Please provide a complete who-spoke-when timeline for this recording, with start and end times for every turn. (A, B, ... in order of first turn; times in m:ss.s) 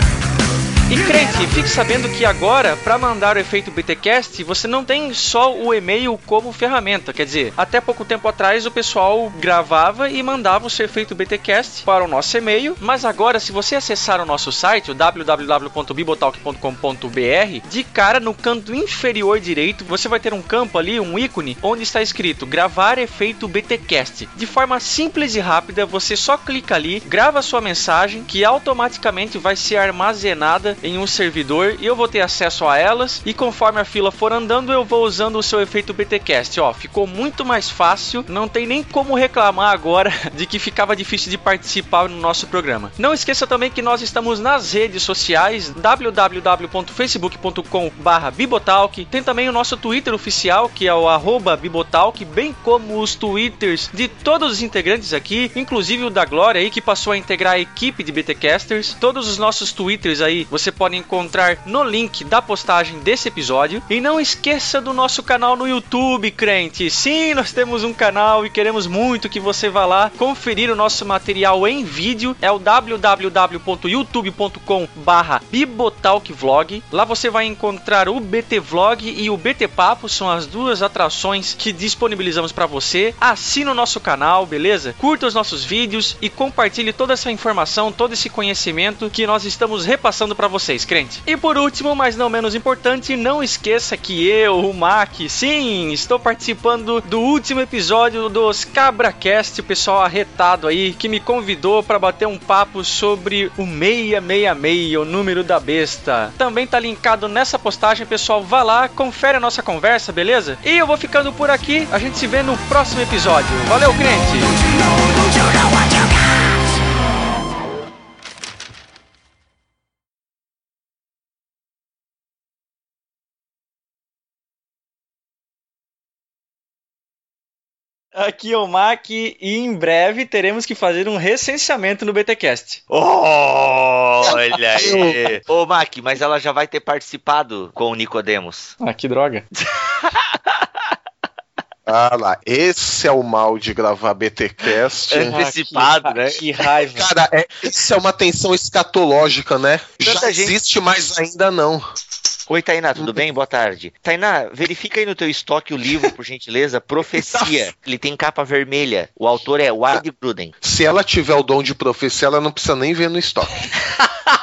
0:00.9-1:54.6 A
2:08.2-2:12.8 A
2:12.9-2:18.8 B
2:14.2-2:15.3 C
2:18.8-2:19.5 A
2:21.9-2:25.4 C
2:25.1-2:26.4 B
2:25.2-2:27.1 A
2:26.9-2:31.9 C
2:30.0-2:30.6 B
2:32.5-2:40.5 B
2:37.1-2:37.7 C
2:40.6-2:43.7 C